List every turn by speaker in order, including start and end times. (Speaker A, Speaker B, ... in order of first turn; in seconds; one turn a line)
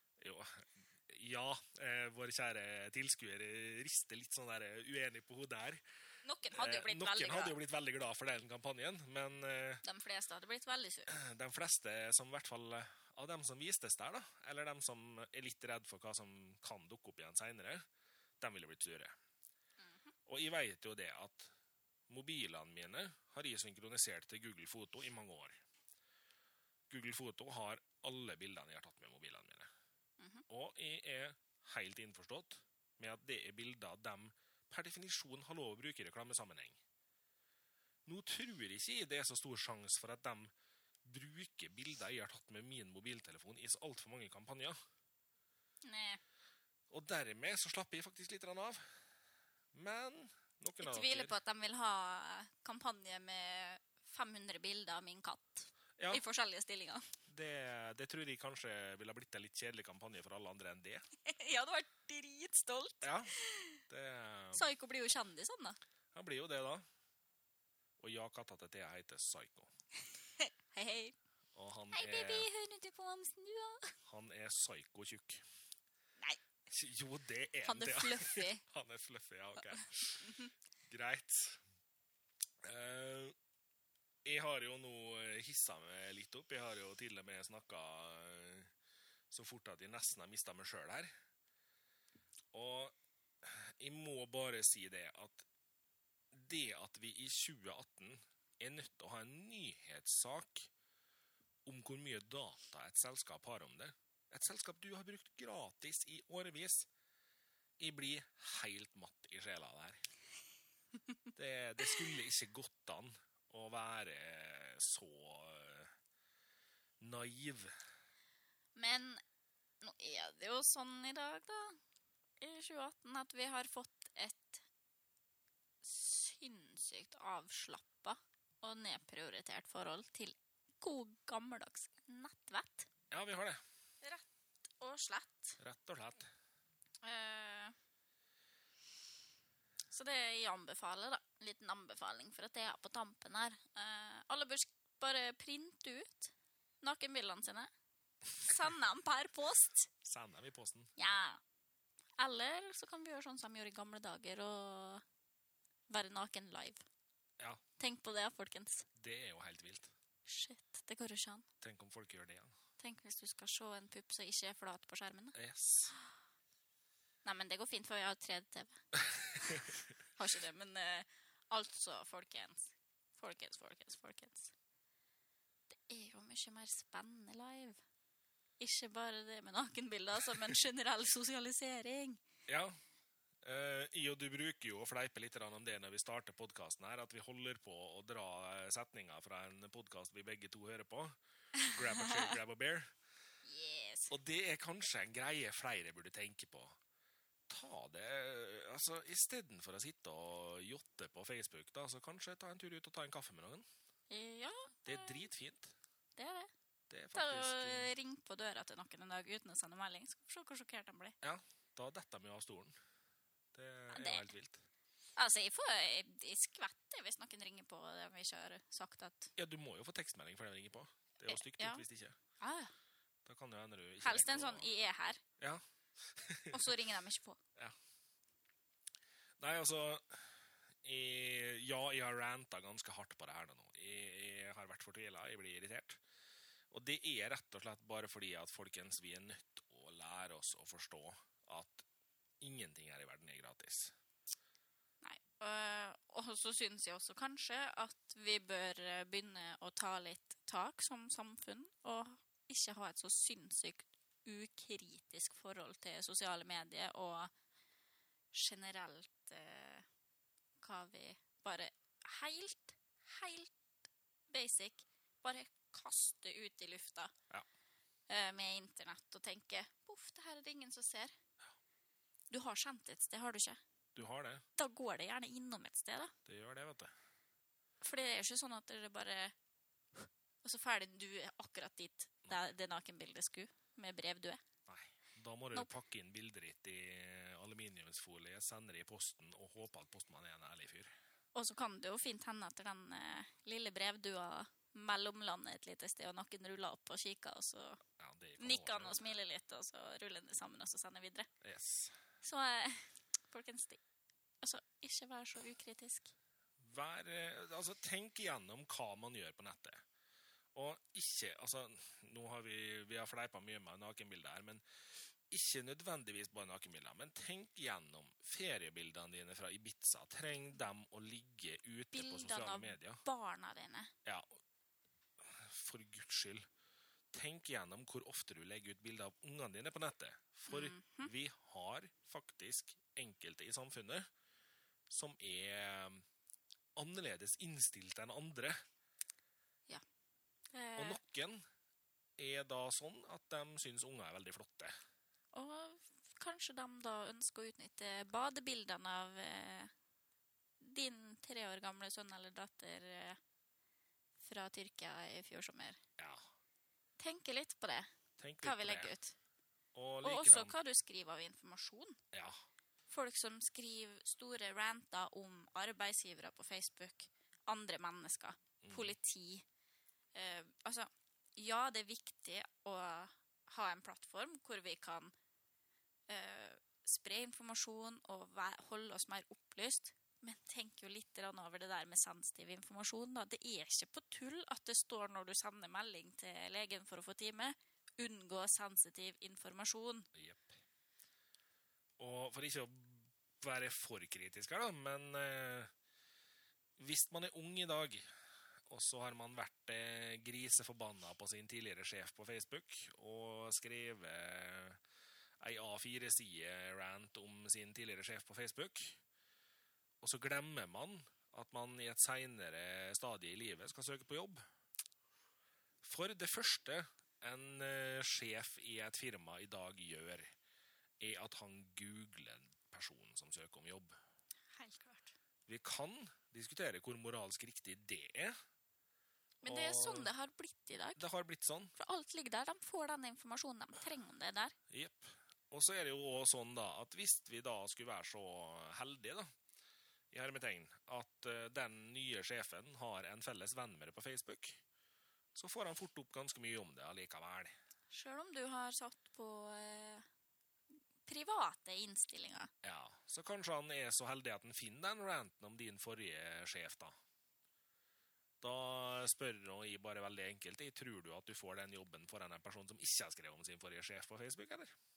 Speaker A: 0.2-5.8
Speaker B: 6.2-7.6
Speaker A: 6.5-9.8
Speaker B: 9.8-11.1
Speaker A: 11.1-17.8
Speaker A: 18.4-19.1
Speaker B: 19.8-20.1
Speaker A: 20.2-21.5
Speaker A: 22.1-25.6
Speaker A: 26.9-29.7
Speaker B: 30.2-30.4
Speaker A: 30.5-36.8
Speaker A: 38.0-40.5
Speaker A: 41.0-44.8
Speaker B: 45.8-46.2
Speaker A: 46.9-49.0
Speaker A: 49.7-51.3
Speaker B: 50.8-57.1
Speaker A: 56.0-56.2
Speaker A: 57.3-61.0
Speaker B: 61.2-63.8
Speaker A: 63.0-63.3
Speaker A: 63.9-64.7
Speaker B: 64.5-65.8
Speaker A: 66.1-66.8
Speaker A: 68.0-69.7
Speaker B: 70.2-71.1
Speaker A: 71.5-72.5
Speaker B: 71.9-73.9
Speaker A: 74.0-75.4
Speaker A: 76.7-81.6
Speaker B: 77.6-78.6
Speaker B: 79.7-80.5
Speaker A: 82.6-83.3
Speaker A: 84.2-88.7
Speaker A: 89.3-91.1
Speaker A: 92.5-95.5
Speaker A: 96.3-100.7
Speaker A: 101.6-106.9
Speaker A: 107.8-110.0
Speaker A: 111.3-115.9
Speaker A: 117.0-117.7
Speaker B: 118.8-119.2
Speaker B: 119.8-121.8
Speaker B: 122.4-124.6
Speaker B: 125.8-132.9
Speaker A: 133.1-133.6
Speaker B: 134.8-135.6
Speaker A: 135.6-136.3
Speaker B: 137.0-137.7
Speaker B: 139.9-147.7
Speaker B: 148.4-149.9
Speaker A: 150.0-150.9
Speaker B: 151.0-151.4
Speaker B: 152.2-155.0
Speaker B: 155.9-156.8
Speaker B: 157.8-158.9
Speaker A: 158.9-159.9
Speaker B: 160.2-161.4
Speaker A: 161.6-162.5
Speaker B: 162.8-165.4
Speaker A: 165.3-165.9
Speaker B: 167.2-174.5
Speaker A: 169.5-169.7
Speaker B: 175.7-177.8
Speaker B: 178.6-182.2
Speaker A: 182.5-182.8
Speaker A: 183.4-192.9
Speaker B: 191.6-192.3
Speaker B: 193.4-194.1
Speaker A: 194.1-196.8
Speaker A: 197.5-203.7
Speaker B: 204.1-205.3
Speaker A: 204.8-205.8
Speaker B: 206.2-206.5
Speaker A: 206.9-207.9
Speaker B: 207.1-211.2
Speaker A: 211.2-212.8
Speaker A: 213.5-214.7
Speaker B: 213.9-214.3
Speaker B: 215.2-219.3
Speaker A: 219.4-222.2
Speaker B: 221.3-221.8
Speaker B: 222.4-222.7
Speaker A: 223.2-224.7
Speaker B: 224.0-225.2
Speaker A: 225.4-226.7
Speaker B: 226.5-227.4
Speaker A: 229.4-236.0
Speaker A: 236.7-241.8
Speaker A: 242.4-243.9
Speaker B: 245.0-257.3
Speaker B: 258.3-259.9
Speaker B: 260.6-263.5
Speaker B: 264.3-267.1
Speaker B: 268.1-271.1
Speaker B: 272.3-273.6
Speaker A: 273.9-274.4
Speaker B: 274.6-276.1
Speaker A: 276.2-276.9
Speaker B: 277.8-279.4
Speaker B: 279.9-284.4
Speaker A: 284.7-290.9
Speaker B: 291.4-297.8
Speaker A: 298.0-299.1
Speaker B: 298.4-301.3
Speaker A: 301.4-302.0
Speaker B: 302.2-303.8
Speaker B: 304.4-306.1
Speaker A: 306.6-309.8
Speaker A: 310.5-314.6
Speaker A: 315.3-323.0
Speaker B: 321.9-323.9
Speaker A: 324.0-324.4
Speaker A: 325.2-326.5
Speaker A: 327.1-334.1
Speaker B: 330.5-331.1
Speaker A: 334.9-336.0
Speaker A: 336.8-338.6
Speaker B: 340.5-341.0
Speaker A: 340.8-341.4
Speaker A: 342.2-344.8
Speaker B: 345.3-349.7
Speaker B: 350.6-353.2
Speaker B: 354.2-355.8
Speaker A: 356.0-356.3
Speaker B: 357.0-357.9
Speaker A: 358.2-358.9
Speaker B: 358.4-359.1
Speaker A: 359.7-360.6
Speaker B: 360.0-362.0
Speaker A: 362.1-362.4
Speaker B: 362.9-369.4
Speaker A: 368.6-368.9
Speaker B: 370.1-375.1
Speaker B: 376.1-390.1
Speaker A: 390.1-390.6
Speaker A: 392.0-395.7
Speaker A: 396.8-404.8
Speaker A: 405.4-409.0
Speaker A: 410.0-414.4
Speaker A: 415.8-420.3
Speaker A: 421.0-423.9
Speaker B: 424.5-425.1
Speaker A: 425.5-428.4
Speaker B: 429.4-431.0
Speaker A: 429.4-430.1
Speaker A: 431.0-431.8
Speaker B: 431.8-434.6
Speaker A: 434.7-439.3
Speaker A: 440.1-444.6
Speaker A: 445.4-447.5
Speaker B: 447.9-450.1
Speaker B: 451.1-452.5
Speaker A: 452.6-456.9
Speaker A: 458.4-464.7